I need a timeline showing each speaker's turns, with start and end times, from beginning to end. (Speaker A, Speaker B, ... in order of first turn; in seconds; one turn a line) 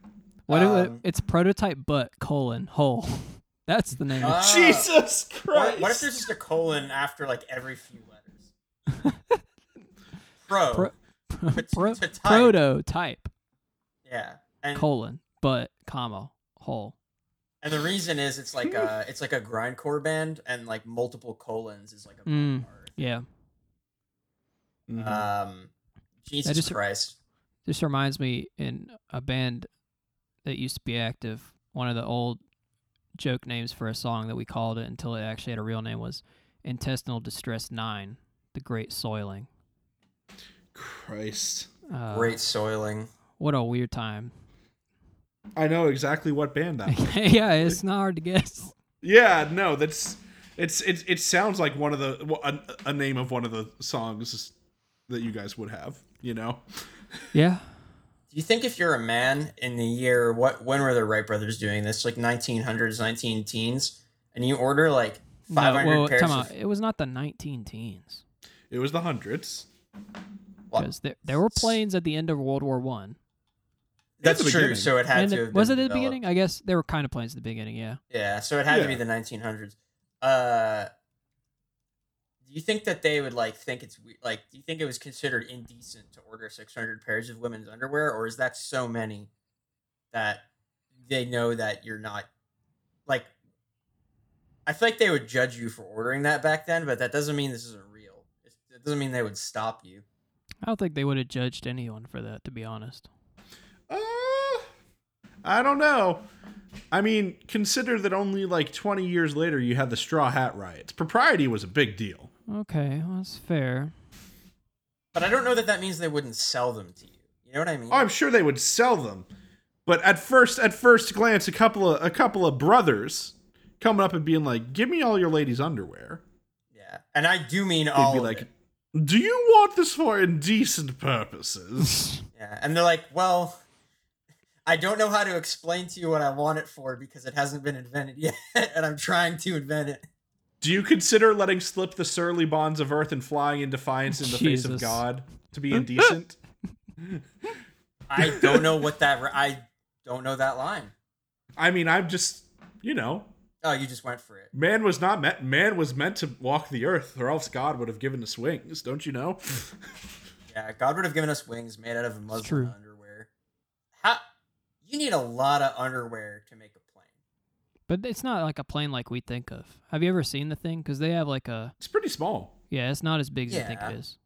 Speaker A: 0.5-4.4
Speaker B: 0.5-1.0
Speaker B: 4.2-4.9
Speaker C: 4.3-6.2
Speaker B: 5.5-8.5
Speaker A: 8.9-9.4
Speaker B: 10.5-10.9
Speaker A: 10.7-13.3
Speaker B: 11.5-12.6
Speaker B: 14.0-14.8
Speaker A: 14.7-16.9
Speaker B: 17.6-22.9
Speaker A: 22.3-23.2
Speaker C: 24.9-25.2
Speaker B: 25.0-25.7
Speaker B: 26.2-27.1
Speaker A: 26.4-26.8
Speaker A: 27.6-29.7
Speaker A: 30.4-32.4
Speaker A: 33.1-39.5
Speaker C: 40.7-41.7
Speaker A: 41.9-42.4
Speaker B: 42.1-43.1
Speaker A: 43.4-44.3
Speaker C: 45.5-47.0
Speaker A: 46.9-48.7
Speaker C: 49.0-54.5
Speaker C: 55.1-57.3
Speaker A: 57.3-57.6
Speaker B: 58.3-66.5
Speaker A: 65.5-68.2
Speaker C: 68.7-69.7
Speaker B: 70.7-71.7
Speaker A: 70.8-73.2
Speaker B: 74.2-76.2
Speaker C: 74.2-74.9
Speaker A: 75.1-78.0
Speaker B: 78.1-80.9
Speaker C: 78.7-79.0
Speaker B: 82.4-89.3
Speaker B: 90.1-90.4
Speaker B: 91.0-92.3
Speaker B: 94.7-100.0
Speaker A: 100.6-103.1
Speaker C: 103.9-104.7
Speaker C: 105.4-106.2
Speaker C: 106.9-112.3
Speaker A: 112.5-113.9
Speaker B: 115.1-118.1
Speaker C: 117.9-119.3
Speaker C: 119.8-126.2
Speaker B: 126.7-128.5
Speaker C: 128.0-132.0
Speaker B: 132.3-133.6
Speaker B: 134.7-140.0
Speaker C: 140.6-146.4
Speaker A: 144.1-145.0
Speaker A: 145.8-146.1
Speaker B: 148.1-150.9
Speaker C: 148.2-148.7
Speaker C: 151.6-153.3
Speaker B: 153.6-154.5
Speaker C: 154.5-159.8
Speaker B: 160.5-163.3
Speaker A: 162.3-162.7
Speaker B: 164.8-167.1
Speaker A: 167.9-171.7
Speaker C: 171.8-172.5
Speaker A: 172.7-174.2
Speaker B: 173.5-173.9